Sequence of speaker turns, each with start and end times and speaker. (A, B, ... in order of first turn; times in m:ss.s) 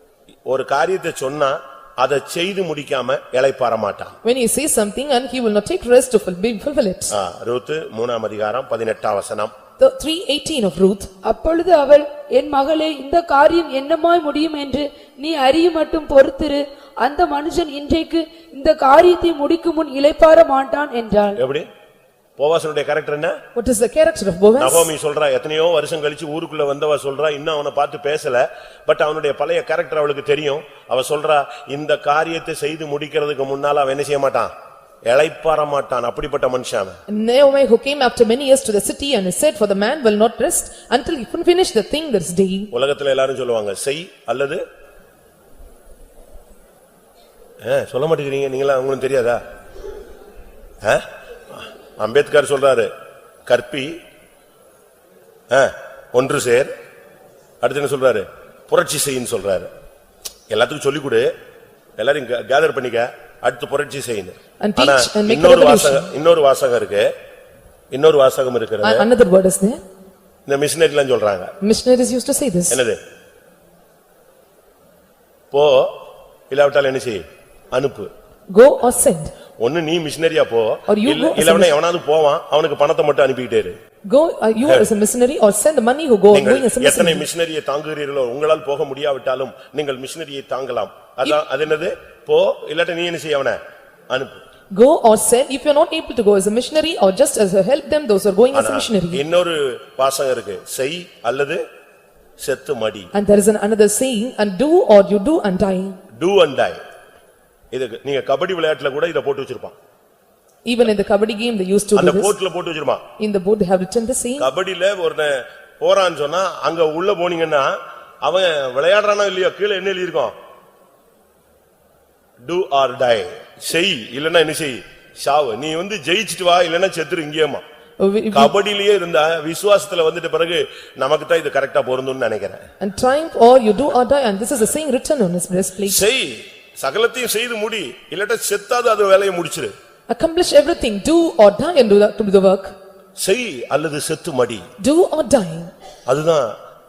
0:00.5-0:04.2 A
0:04.2-0:07.1 B
0:07.1-0:09.5 A
0:09.8-0:11.1 B
0:11.2-0:21.4 C
0:21.4-0:21.7 A
0:22.4-0:23.4 A
0:23.5-0:24.9 B
0:24.6-0:34.5 A
0:35.1-0:37.0 A
0:37.1-0:42.7 B
0:42.7-0:44.6 A
0:47.6-0:49.4 A
0:50.8-0:52.9 A
0:53.5-0:53.9 A
0:55.5-0:56.7 A
0:57.6-0:59.7 A
1:00.5-1:01.3 A
1:02.0-1:07.1 A
1:04.6-1:06.1 B
1:07.9-1:09.0 A
1:08.8-1:09.8 B
1:10.5-1:11.5 A
1:11.6-1:12.8 B
1:12.7-1:13.0 A
1:15.5-1:15.9 A
1:16.5-1:18.1 A
1:18.5-1:19.3 B
1:19.6-1:23.7 A
1:20.9-1:21.7 B
1:24.1-1:27.2 B
1:26.3-1:33.6 A
1:34.1-1:34.4 A
1:34.7-1:39.2 B
1:38.5-1:41.6 A
1:42.4-1:43.1 A
1:43.1-1:46.0 B
1:46.2-1:46.8 A
1:47.7-1:49.7 A
1:50.7-1:52.3 B
1:52.0-1:53.0 A
1:53.2-1:54.5 B
1:54.4-1:57.7 A
1:58.2-2:00.3 A
2:02.4-2:07.6 A
2:08.0-2:08.5 B
2:08.3-2:12.6 A
2:12.8-2:16.0 B
2:15.8-2:19.7 A
2:20.1-2:22.7 B
2:23.2-2:24.6 A
2:24.8-2:25.7 B
2:26.1-2:26.5 A